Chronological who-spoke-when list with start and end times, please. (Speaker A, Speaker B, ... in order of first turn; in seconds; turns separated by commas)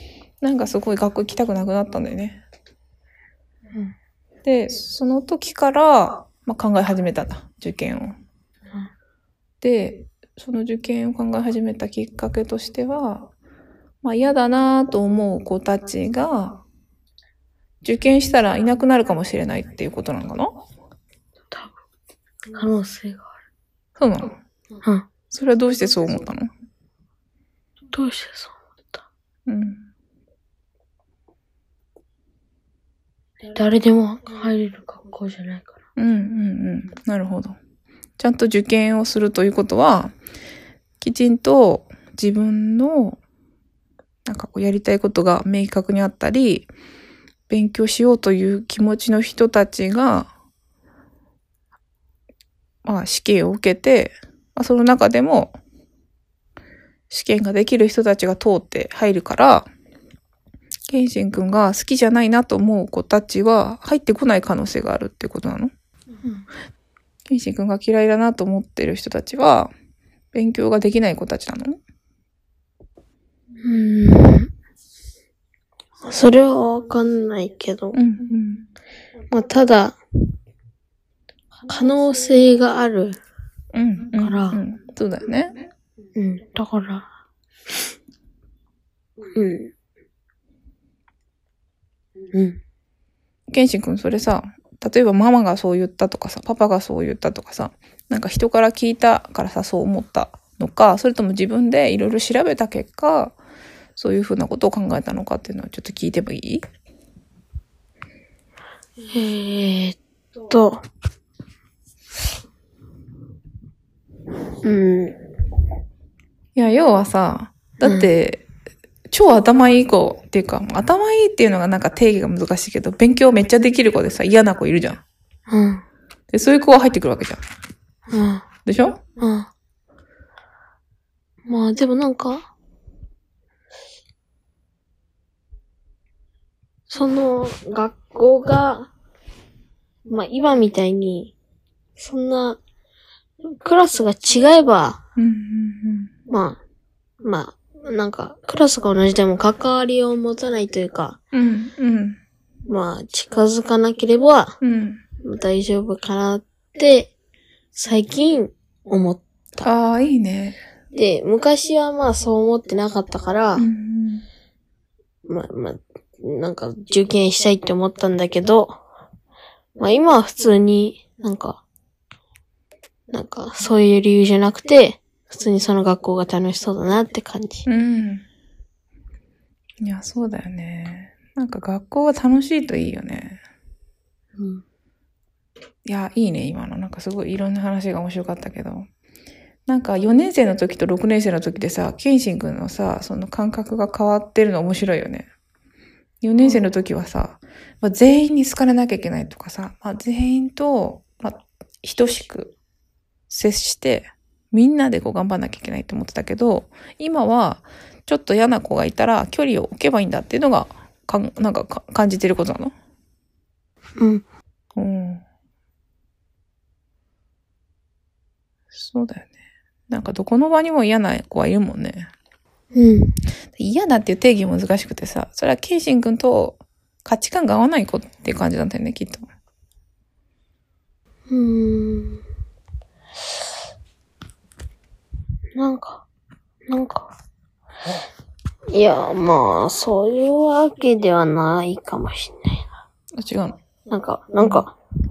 Speaker A: 0.4-2.4, Speaker A: 4.4-8.2, Speaker A: 9.6-13.3, Speaker A: 14.0-16.6, Speaker A: 17.8-20.6, Speaker B: 22.5-23.3, Speaker A: 24.0-24.4, Speaker A: 25.3-26.5, Speaker B: 27.9-29.0, Speaker A: 29.5-29.9, Speaker B: 33.5-35.8, Speaker A: 36.0-37.5, Speaker A: 38.2-40.1, Speaker A: 41.0-43.2, Speaker A: 44.2-46.7, Speaker A: 47.5-50.3, Speaker A: 52.8-55.5, Speaker A: 57.1-59.7, Speaker A: 60.9-65.7, Speaker A: 67.3-69.7, Speaker A: 70.3-71.8, Speaker B: 73.6-74.5, Speaker B: 76.0-78.0, Speaker A: 77.9-78.7, Speaker B: 79.3-80.0, Speaker B: 81.7-83.2, Speaker A: 83.7-85.5, Speaker B: 84.2-84.6, Speaker B: 86.2-87.1, Speaker B: 89.3-89.7, Speaker B: 92.3-92.6, Speaker A: 93.5-103.3, Speaker A: 104.0-106.6, Speaker B: 109.1-110.8, Speaker B: 114.6-115.2, Speaker A: 116.5-118.4, Speaker B: 117.8-118.1, Speaker A: 119.1-125.0, Speaker B: 125.5-125.8, Speaker A: 126.3-127.4, Speaker B: 128.1-128.4, Speaker A: 128.7-129.0, Speaker B: 129.2-129.5, Speaker B: 131.5-132.5, Speaker B: 136.9-138.9, Speaker B: 140.1-141.3, Speaker B: 142.0-142.6, Speaker B: 143.4-145.0, Speaker A: 145.2-146.1, Speaker B: 146.3-146.6, Speaker B: 147.2-151.2, Speaker A: 151.3-152.2, Speaker B: 152.7-154.6, Speaker A: 154.6-155.0, Speaker B: 155.2-157.1, Speaker B: 157.7-159.7, Speaker A: 159.6-160.6, Speaker B: 160.9-163.7, Speaker A: 163.6-164.2, Speaker B: 165.2-168.8, Speaker B: 169.8-171.6, Speaker B: 173.1-177.7, Speaker A: 177.7-178.2, Speaker A: 179.8-183.4, Speaker B: 184.4-184.6, Speaker A: 185.8-188.8, Speaker A: 189.7-195.3, Speaker A: 196.2-202.5, Speaker A: 203.3-212.7, Speaker B: 214.0-214.2, Speaker A: 214.8-215.2, Speaker A: 218.7-219.3, Speaker A: 219.9-222.1, Speaker B: 222.7-223.1, Speaker A: 223.6-229.2, Speaker B: 231.3-232.2, Speaker B: 235.6-236.0, Speaker B: 236.7-237.1, Speaker B: 238.7-242.7, Speaker A: 243.2-243.6, Speaker B: 243.9-244.7, Speaker A: 244.4-244.6